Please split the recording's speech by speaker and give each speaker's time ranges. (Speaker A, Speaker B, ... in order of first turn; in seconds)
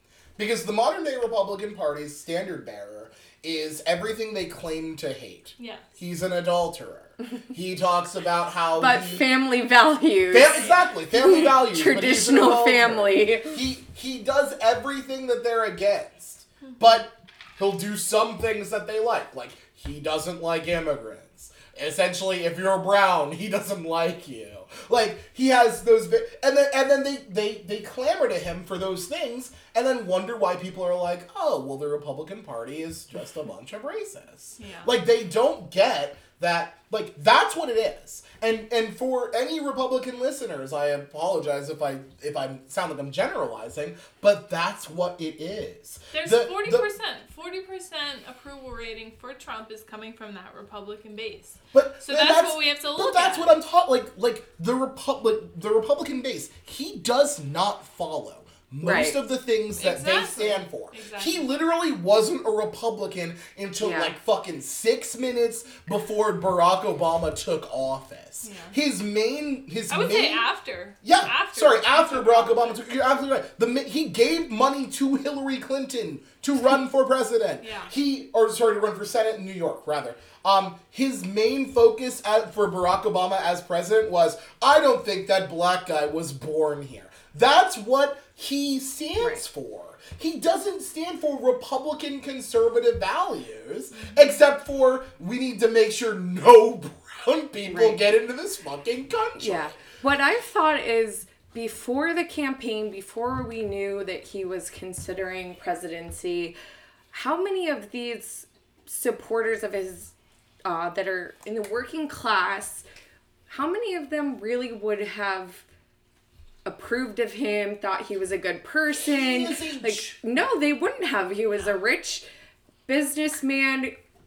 Speaker A: 0.4-9.2, 10.3-46.9, 51.7-70.4, 71.0-99.7, 119.0-120.2
Speaker B: 5.6-5.9, 16.6-16.9, 34.6-34.9, 46.1-53.5, 59.8-61.5, 68.4-68.7, 69.9-72.9, 77.6-77.9, 93.9-94.4
Speaker C: 8.7-13.6, 58.8-59.2, 63.8-64.1, 97.7-98.0, 99.4-106.5, 107.1-110.1, 110.6-112.8, 113.5-115.6, 116.6-122.3, 122.9-123.9